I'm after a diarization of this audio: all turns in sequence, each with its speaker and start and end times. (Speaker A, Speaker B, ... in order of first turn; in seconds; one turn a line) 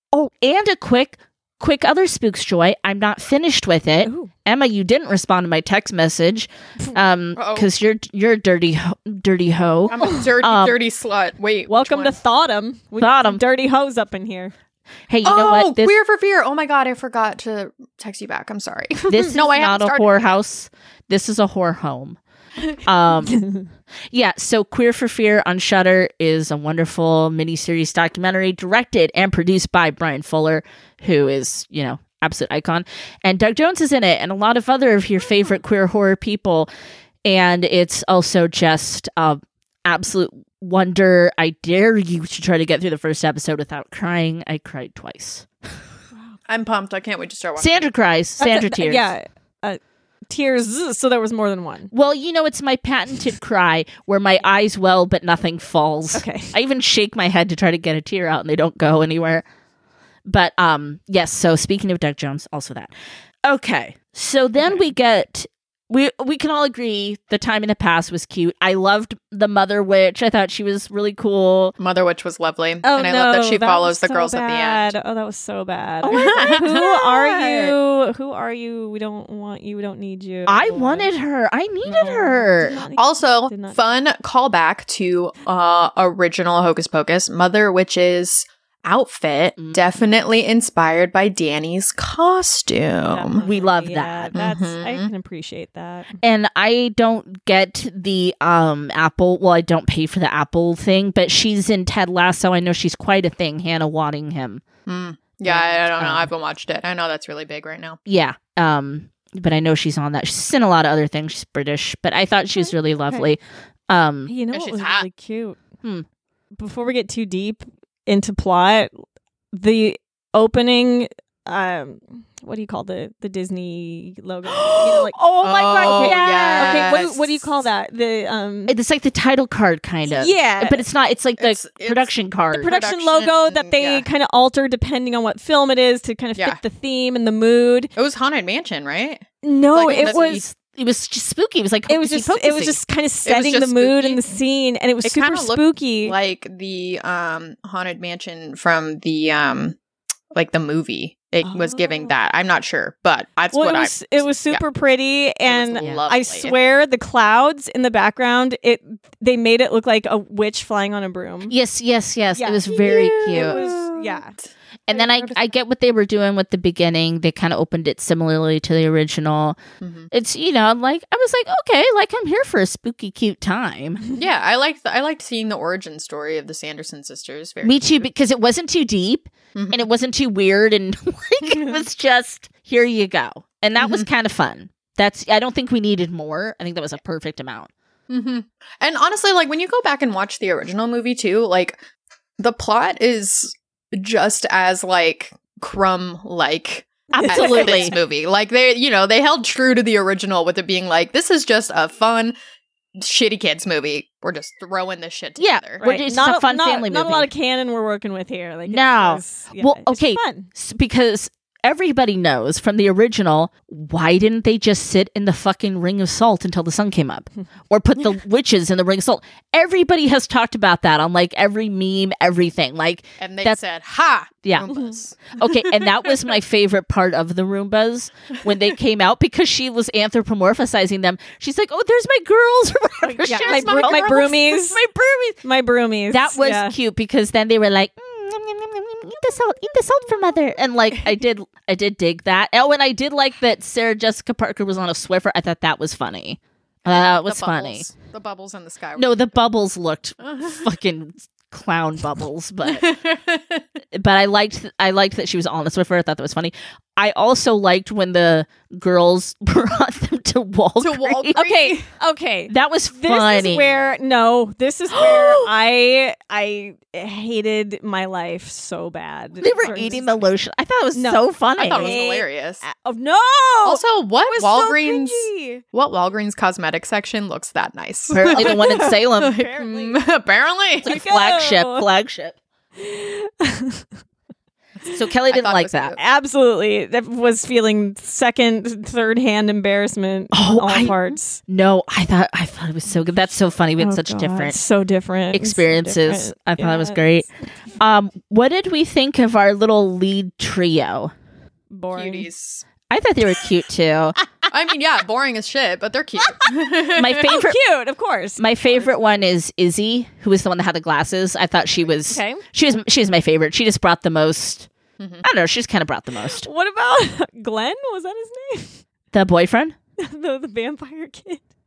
Speaker A: 0.1-10.8
Speaker B: 4.0-4.3
Speaker C: 7.3-7.7
Speaker C: 9.9-12.2
Speaker B: 11.7-14.5
Speaker A: 13.0-13.4
Speaker A: 15.1-15.9
Speaker C: 15.2-20.4
Speaker A: 19.1-22.2
Speaker A: 22.8-23.4
Speaker B: 23.3-23.7
Speaker A: 24.1-36.7
Speaker A: 37.2-45.5
Speaker C: 46.5-47.9
Speaker A: 47.6-49.0
Speaker B: 48.4-51.9
Speaker A: 51.9-59.4
Speaker B: 56.1-56.5
Speaker A: 60.3-62.9
Speaker A: 63.5-71.8
Speaker C: 71.8-74.9
Speaker B: 72.8-81.1
Speaker A: 76.0-77.8
Speaker C: 76.1-76.8
Speaker A: 80.5-82.8
Speaker B: 81.8-83.8
Speaker C: 83.0-93.5
Speaker A: 89.6-89.8
Speaker B: 93.1-96.2
Speaker A: 93.4-94.3
Speaker C: 94.3-95.1
Speaker A: 96.2-104.6
Speaker C: 104.9-108.0
Speaker A: 105.5-106.3
Speaker A: 108.1-114.3
Speaker B: 112.6-113.3
Speaker B: 114.3-115.6
Speaker C: 114.5-115.1
Speaker B: 116.5-119.0
Speaker B: 119.5-125.2
Speaker C: 124.5-127.5
Speaker A: 124.8-126.9
Speaker B: 125.8-128.7
Speaker A: 128.7-132.7
Speaker B: 130.1-130.8
Speaker C: 131.4-132.1
Speaker B: 132.5-137.9
Speaker C: 132.6-134.1
Speaker C: 138.0-140.4
Speaker B: 139.4-140.4
Speaker A: 139.9-142.8
Speaker B: 141.9-146.2
Speaker C: 143.2-144.2
Speaker C: 145.0-149.8
Speaker C: 150.3-154.6
Speaker B: 151.4-152.1
Speaker B: 153.5-161.5
Speaker C: 155.4-156.6
Speaker A: 155.8-156.1
Speaker A: 161.5-163.7
Speaker B: 162.4-164.3
Speaker C: 162.7-165.5
Speaker A: 164.9-169.6
Speaker C: 169.8-170.1
Speaker A: 170.1-174.0
Speaker C: 174.2-178.1
Speaker A: 177.6-187.7
Speaker C: 179.6-179.9
Speaker C: 183.8-184.1
Speaker C: 188.1-191.8
Speaker C: 192.4-202.4
Speaker A: 197.1-198.0
Speaker B: 197.2-197.9
Speaker C: 203.0-205.8
Speaker A: 205.4-207.3
Speaker B: 205.8-210.5
Speaker A: 208.7-223.6
Speaker C: 223.2-226.1
Speaker B: 224.7-224.9
Speaker A: 225.3-235.4
Speaker B: 233.3-234.8
Speaker C: 233.3-234.3
Speaker B: 235.4-236.8
Speaker A: 236.1-247.9
Speaker C: 246.8-249.3
Speaker A: 249.0-252.9
Speaker C: 250.2-250.6
Speaker C: 252.6-253.7
Speaker A: 253.9-261.8
Speaker C: 260.8-261.9
Speaker B: 261.4-270.3
Speaker A: 262.5-263.8
Speaker C: 265.1-265.4
Speaker A: 269.4-272.0
Speaker B: 270.9-275.6
Speaker C: 271.6-272.6
Speaker C: 273.6-281.0
Speaker A: 278.1-279.4
Speaker B: 278.2-280.0
Speaker A: 280.8-282.4
Speaker B: 280.9-281.9
Speaker B: 282.8-283.9
Speaker A: 284.9-286.0
Speaker C: 285.3-286.0
Speaker B: 286.0-291.4
Speaker A: 290.3-294.6
Speaker B: 293.8-297.2
Speaker A: 295.3-301.1
Speaker B: 301.7-302.3
Speaker C: 301.9-302.7
Speaker A: 302.9-304.2
Speaker C: 304.5-307.3
Speaker B: 306.2-306.5
Speaker A: 307.0-307.6
Speaker B: 307.2-308.8
Speaker A: 308.4-314.7
Speaker B: 312.1-312.4
Speaker C: 315.0-315.2
Speaker A: 315.2-316.5
Speaker B: 316.4-318.8
Speaker A: 319.1-319.8
Speaker B: 320.0-321.4